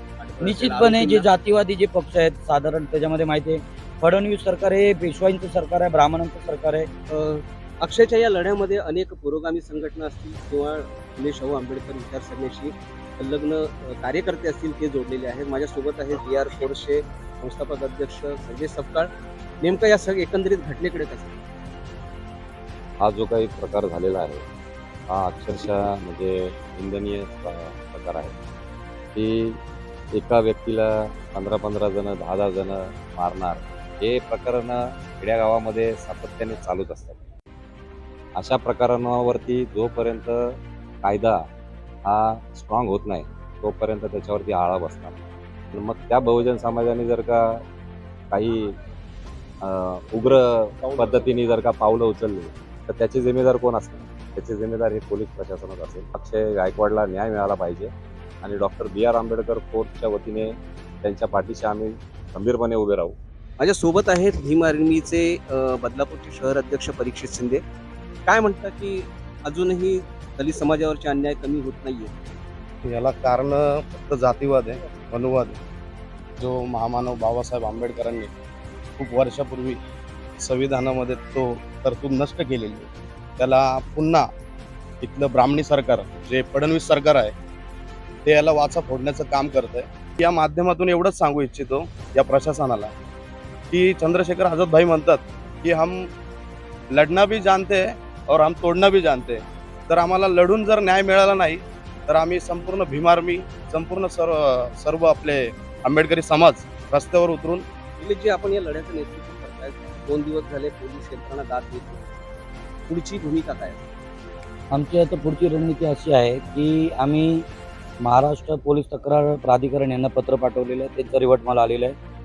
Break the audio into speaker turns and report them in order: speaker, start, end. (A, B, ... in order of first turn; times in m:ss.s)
0:00.2-0:01.3 A
0:00.4-0:06.9 B
0:07.1-0:21.4 A
0:23.0-0:24.4 C
0:25.1-0:28.3 C
0:29.1-0:37.2 C
0:38.3-0:41.5 C
0:42.0-0:47.6 C
0:48.3-0:48.8 C
0:49.6-1:03.2 C
1:03.6-1:07.6 A
1:08.2-1:12.1 A
1:12.8-1:15.6 D
1:16.4-1:18.3 D
1:19.0-1:19.8 D
1:20.4-1:24.3 D
1:25.0-1:27.3 D
1:28.2-1:32.9 D
1:33.7-1:36.1 D
1:36.9-1:47.6 D
1:48.0-1:52.1 A
1:52.9-1:53.8 A
1:54.7-1:57.5 B
1:58.0-2:02.0 B